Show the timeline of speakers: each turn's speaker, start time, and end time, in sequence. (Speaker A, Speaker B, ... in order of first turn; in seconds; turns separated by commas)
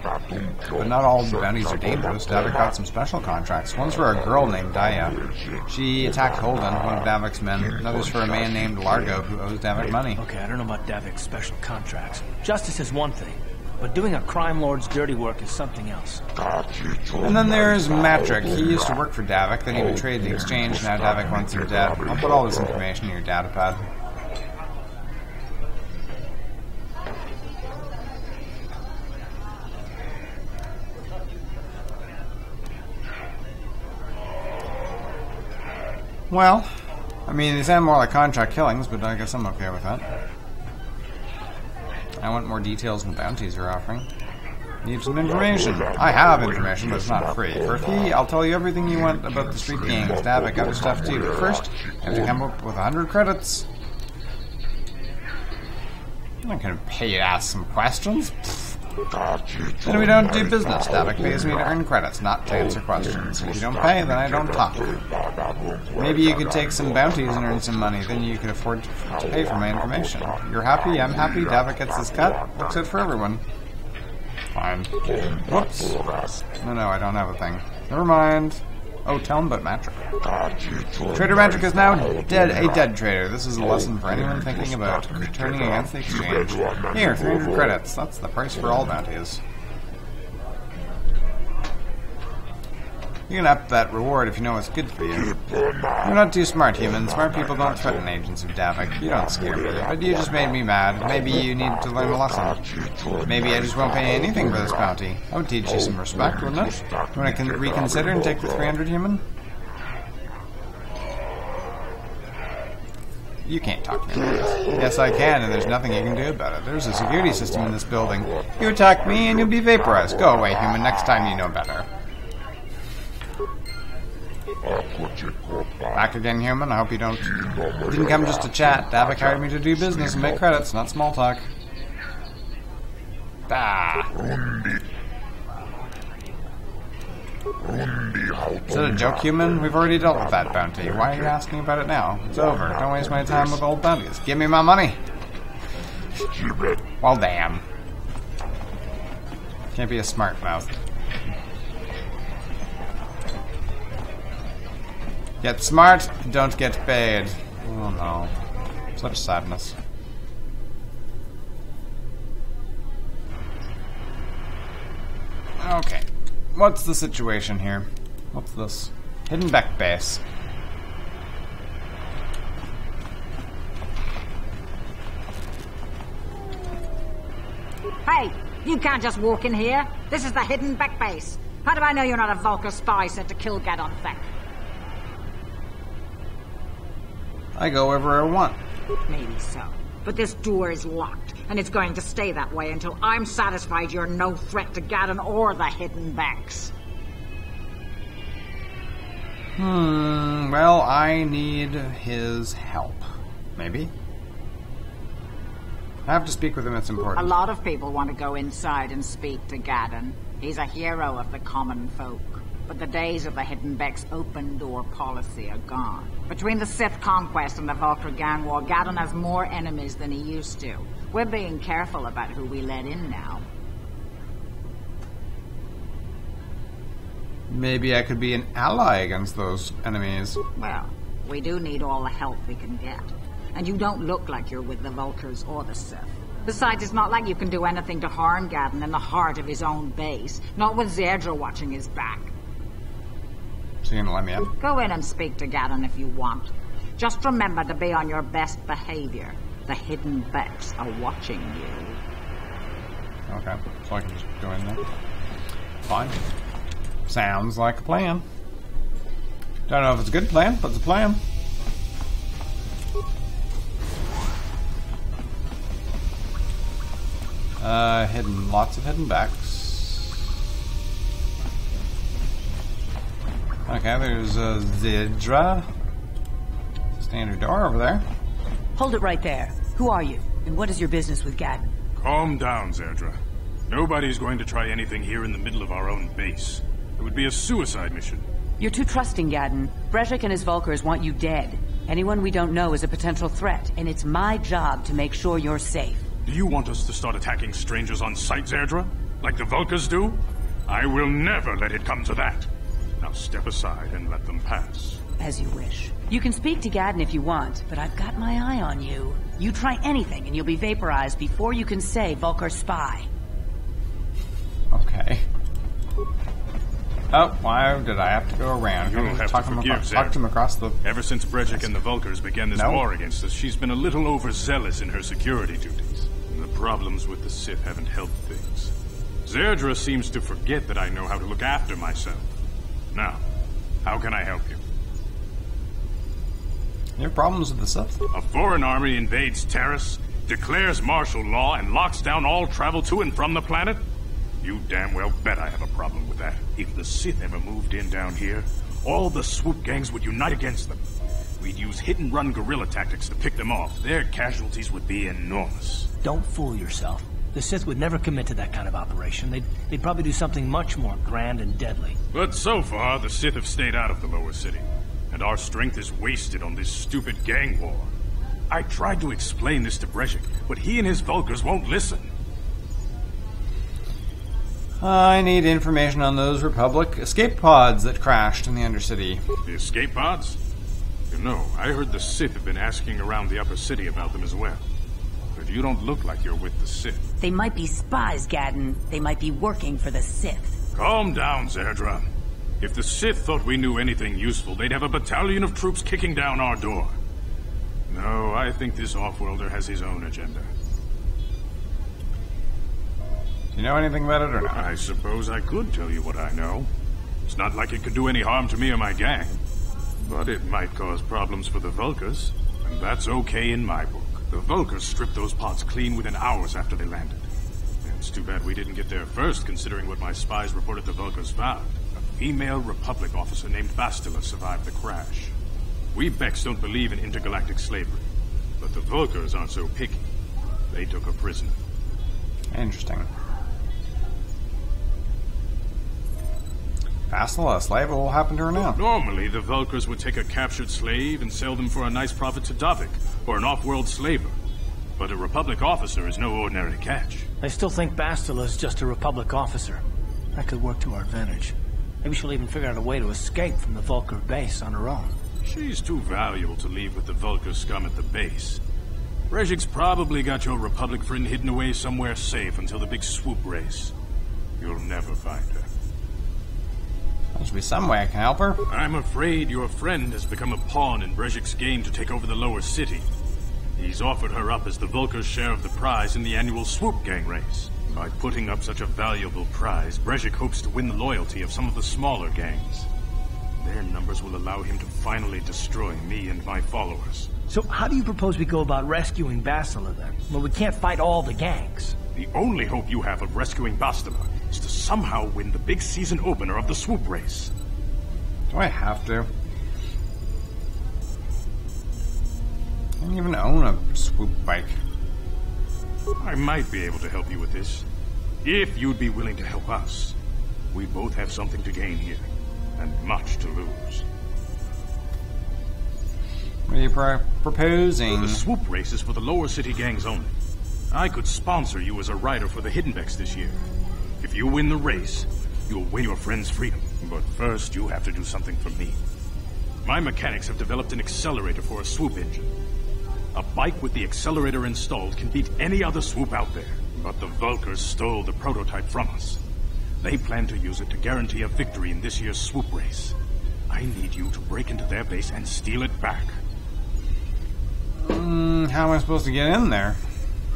Speaker A: 0.7-10.2, Speaker B: 10.2-16.2, Speaker A: 17.2-23.8, Speaker A: 36.3-36.7, Speaker A: 37.3-40.0, Speaker A: 42.2-44.1, Speaker A: 44.8-53.7, Speaker A: 56.4-58.8, Speaker A: 59.8-65.1, Speaker A: 65.9-73.4, Speaker A: 74.5-80.1, Speaker A: 81.0-89.4, Speaker A: 93.3-109.2, Speaker A: 113.4-121.9, Speaker A: 125.9-131.5, Speaker A: 133.5-134.2, Speaker A: 138.6-145.0, Speaker A: 147.0-147.7, Speaker A: 149.7-150.7, Speaker A: 155.4-158.3, Speaker A: 158.9-159.8, Speaker A: 165.6-170.2, Speaker C: 178.1-184.3, Speaker A: 187.6-188.6, Speaker C: 189.1-196.7, Speaker A: 199.6-203.9, Speaker A: 206.1-207.3, Speaker C: 207.2-223.4, Speaker A: 227.5-230.4, Speaker C: 230.6-242.3, Speaker A: 243.8-244.5, Speaker C: 244.6-252.0, Speaker A: 253.3-254.8, Speaker A: 255.8-256.2, Speaker A: 257.1-258.2, Speaker A: 259.7-261.2, Speaker A: 267.6-270.2, Speaker A: 273.7-275.7, Speaker A: 277.0-278.1, Speaker D: 278.8-281.7, Speaker E: 282.0-283.2, Speaker E: 283.7-288.3, Speaker D: 288.6-296.1, Speaker E: 296.2-302.5, Speaker E: 303.0-305.0, Speaker D: 305.2-313.1, Speaker A: 314.7-315.2, Speaker A: 317.1-320.8, Speaker E: 318.9-320.2, Speaker E: 320.8-328.7, Speaker A: 322.6-322.9, Speaker E: 329.2-332.2, Speaker E: 332.9-333.2, Speaker E: 333.8-334.6, Speaker A: 337.0-338.0, Speaker E: 338.1-343.8, Speaker E: 344.4-350.8, Speaker E: 351.4-355.9, Speaker B: 356.0-362.0, Speaker E: 362.1-367.9, Speaker E: 368.5-372.1, Speaker A: 374.8-379.2, Speaker E: 379.4-380.4, Speaker E: 381.1-384.6, Speaker E: 385.4-387.0, Speaker D: 387.2-390.6, Speaker E: 390.7-392.1, Speaker E: 392.6-396.9, Speaker E: 397.9-400.5, Speaker A: 403.5-404.7, Speaker E: 404.5-406.7, Speaker E: 407.3-409.4, Speaker E: 410.0-417.2, Speaker E: 417.8-425.3, Speaker E: 425.9-428.1, Speaker E: 428.6-430.0, Speaker E: 430.7-431.6, Speaker A: 432.5-433.1, Speaker A: 437.1-438.8, Speaker E: 438.8-444.3, Speaker E: 445.0-447.3, Speaker B: 447.4-449.8, Speaker B: 450.3-455.2, Speaker E: 455.4-458.6, Speaker E: 459.3-463.9, Speaker E: 464.6-465.7, Speaker A: 467.4-468.6, Speaker E: 468.7-473.1, Speaker E: 473.8-482.9, Speaker E: 483.6-487.3, Speaker B: 487.5-492.0, Speaker E: 492.1-497.5, Speaker A: 498.5-499.3, Speaker A: 503.0-504.8, Speaker E: 506.2-507.9, Speaker E: 508.4-510.1, Speaker E: 510.7-512.2, Speaker E: 512.8-514.0, Speaker A: 516.7-518.4, Speaker E: 518.1-520.3, Speaker E: 520.9-523.6, Speaker E: 524.2-529.0, Speaker E: 529.9-532.5, Speaker E: 533.3-539.4, Speaker E: 540.0-543.2, Speaker E: 543.7-546.4, Speaker A: 548.0-550.0